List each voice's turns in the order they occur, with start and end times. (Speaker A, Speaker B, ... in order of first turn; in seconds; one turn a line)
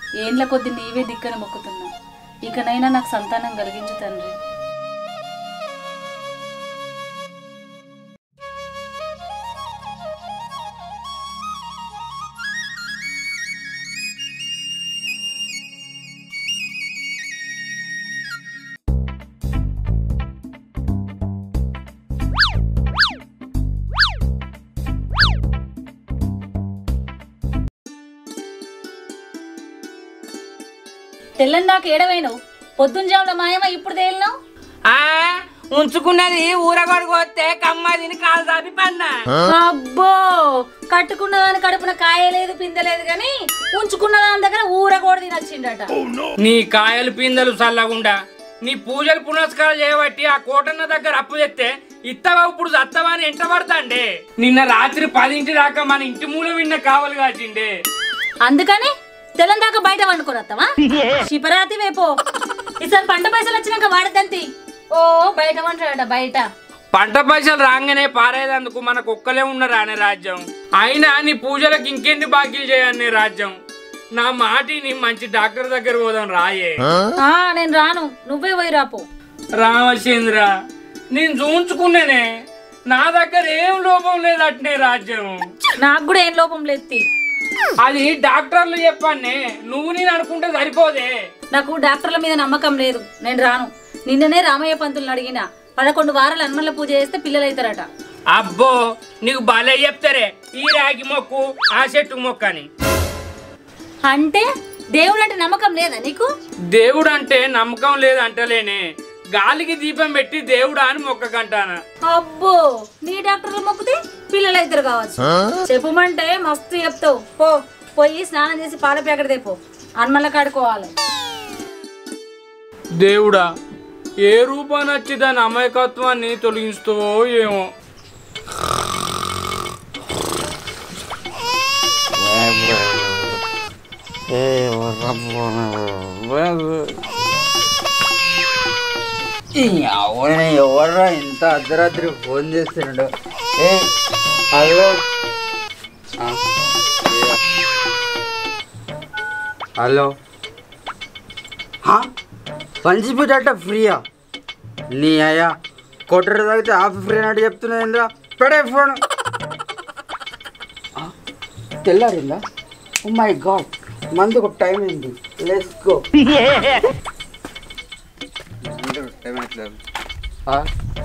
Speaker A: 0.2-1.9
Speaker A: 2.5-4.3
Speaker A: 31.4-34.3
Speaker B: 34.9-39.1
Speaker A: 39.5-45.9
Speaker B: 46.4-57.7
Speaker A: 58.4-62.1
Speaker A: 62.8-66.5
Speaker B: 66.9-73.5
Speaker B: 74.1-76.9
Speaker A: 77.2-79.0
Speaker B: 79.6-80.5
Speaker B: 81.1-82.2
Speaker B: 82.9-85.4
Speaker A: 85.8-87.0
Speaker B: 87.8-91.1
Speaker A: 91.5-97.8
Speaker B: 98.3-102.7
Speaker A: 104.0-106.3
Speaker B: 106.7-108.8
Speaker B: 109.3-111.8
Speaker A: 112.0-120.9
Speaker B: 123.0-123.5
Speaker B: 124.2-127.6
Speaker C: 132.2-133.3
Speaker C: 134.3-137.0
Speaker C: 139.5-143.9
Speaker C: 144.5-145.0
Speaker C: 147.0-147.4
Speaker C: 149.8-150.1
Speaker C: 152.8-154.0
Speaker C: 154.9-155.5
Speaker C: 156.1-159.0
Speaker C: 161.8-162.4
Speaker C: 163.0-166.1
Speaker C: 168.6-169.8